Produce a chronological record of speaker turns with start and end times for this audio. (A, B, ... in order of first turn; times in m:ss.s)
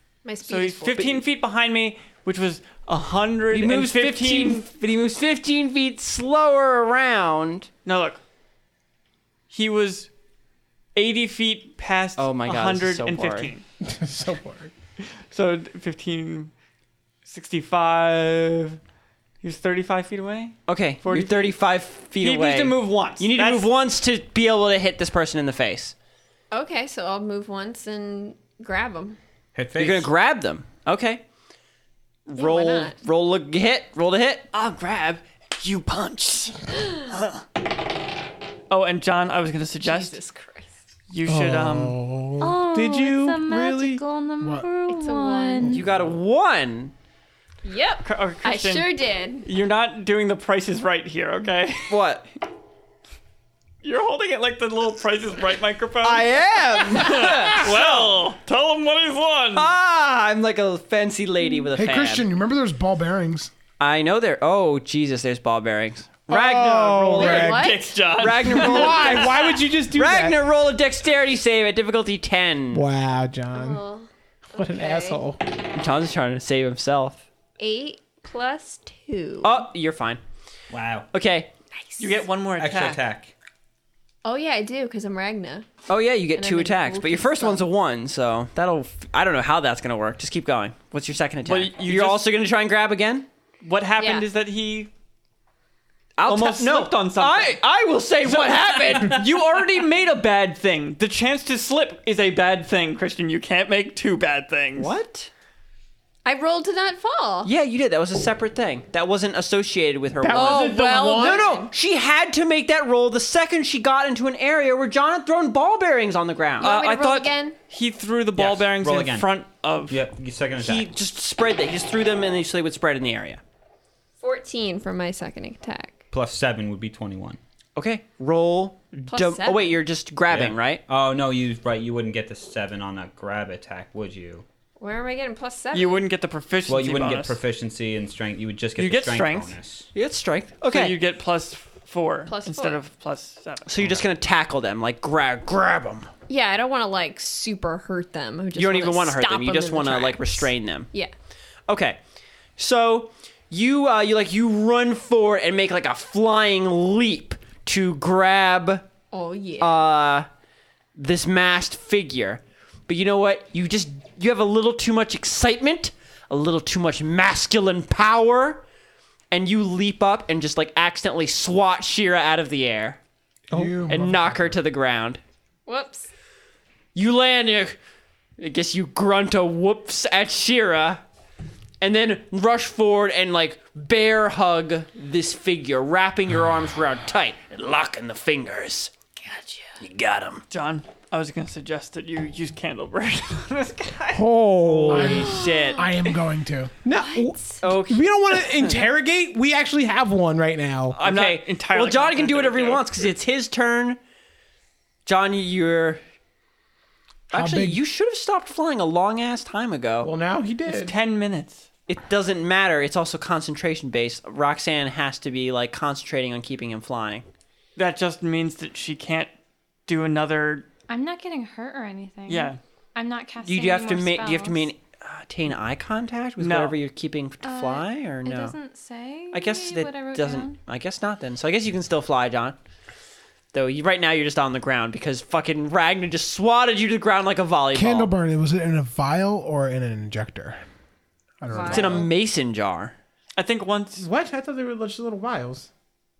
0:00.2-0:01.2 A
0:00.4-0:04.6 B
0:03.5-0:07.7 C
0:07.8-0:08.2 B
0:09.5-0:10.1 B
0:10.9-0:13.6 B
0:12.2-0:13.5 C
0:13.8-0:14.7 D
0:15.2-0:16.5 B
0:17.2-0:18.8 B
0:19.4-0:21.6 B
0:20.7-0:25.9 C
0:22.2-0:23.7 B
0:26.5-0:29.2 A
0:29.5-0:30.1 E
0:29.8-0:31.2 C
0:32.2-0:34.5 C
0:32.4-0:33.0 A
0:34.5-0:37.4 B
0:38.7-0:40.2 B
0:39.8-0:40.7 A
0:41.1-0:42.0 B
0:41.2-0:44.0 D
0:42.4-0:45.8 F
0:44.4-0:44.7 G
0:44.9-0:45.7 A
0:45.6-0:46.9 C
0:47.6-0:49.5 A
0:48.0-0:48.9 B
0:49.4-0:52.0 B
0:51.9-0:52.2 C
0:53.8-0:59.7 B
0:56.0-0:58.1 C
0:59.5-1:02.3 C
1:01.7-1:03.5 G
1:03.8-1:07.5 C
1:06.3-1:07.7 D
1:07.2-1:08.0 A
1:07.2-1:09.4 B
1:08.1-1:12.8 C
1:08.4-1:10.4 D
1:12.7-1:13.8 D
1:13.5-1:15.2 A
1:14.5-1:15.4 D
1:15.7-1:17.2 C
1:17.6-1:19.6 A
1:19.4-1:20.2 C
1:20.7-1:21.1 E
1:21.1-1:21.5 C
1:21.8-1:22.2 A
1:22.0-1:23.0 B
1:22.6-1:23.3 E
1:24.2-1:25.7 A
1:25.9-1:33.3 C
1:26.3-1:27.6 A
1:31.4-1:32.3 B
1:33.6-1:34.9 B
1:34.0-1:34.2 A
1:36.2-1:39.6 C
1:36.2-1:37.6 B
1:38.2-1:44.9 B
1:44.8-1:45.3 C
1:46.2-1:47.5 A
1:47.4-1:57.2 C
1:50.2-1:51.6 D
1:50.3-1:51.7 A
1:56.6-1:57.6 A
1:57.7-2:00.0 B
1:58.4-1:59.3 E
1:59.9-2:00.9 E
2:00.6-2:03.4 C
2:04.2-2:06.0 A
2:06.1-2:07.4 E
2:07.8-2:10.8 C
2:09.1-2:09.7 A
2:10.3-2:14.4 E
2:14.8-2:16.0 A
2:15.7-2:17.4 B
2:16.6-2:19.9 E
2:18.8-2:19.5 B
2:19.9-2:20.9 C
2:20.7-2:23.7 B
2:22.2-2:22.8 A
2:23.6-2:26.1 C
2:26.3-2:31.1 A
2:28.6-2:30.9 C
2:31.7-2:32.0 C
2:32.6-2:38.8 C
2:39.1-2:39.8 A
2:39.6-2:40.3 C
2:41.0-2:48.6 C
2:49.3-2:53.0 C
2:53.5-2:53.8 D
2:53.5-2:54.6 G
2:53.9-2:55.2 C
2:55.6-2:56.1 A
2:56.9-2:57.8 C
2:58.4-3:01.0 C
3:01.8-3:08.9 C
3:09.3-3:09.6 A
3:09.8-3:10.4 C
3:10.5-3:14.3 B
3:14.1-3:15.3 D
3:14.6-3:15.9 C
3:14.8-3:16.8 G
3:15.3-3:16.0 A
3:16.8-3:21.0 D
3:16.9-3:17.3 A
3:17.6-3:18.7 C
3:21.0-3:23.1 B
3:21.0-3:24.0 C
3:25.0-3:26.0 C
3:27.3-3:30.1 C
3:27.3-3:27.8 G
3:30.0-3:30.9 D
3:30.6-3:31.6 B
3:31.9-3:37.2 C
3:37.8-3:39.3 B
3:39.9-3:40.7 B
3:40.9-3:44.7 F
3:42.3-3:42.6 B
3:43.4-3:48.6 C
3:46.4-3:46.8 B
3:47.4-3:50.6 F
3:49.3-3:52.6 C
3:53.5-3:58.1 C
3:57.7-4:00.6 G
4:01.4-4:02.1 G
4:01.5-4:02.1 A
4:01.6-4:02.9 C
4:03.4-4:04.0 B
4:04.0-4:05.7 D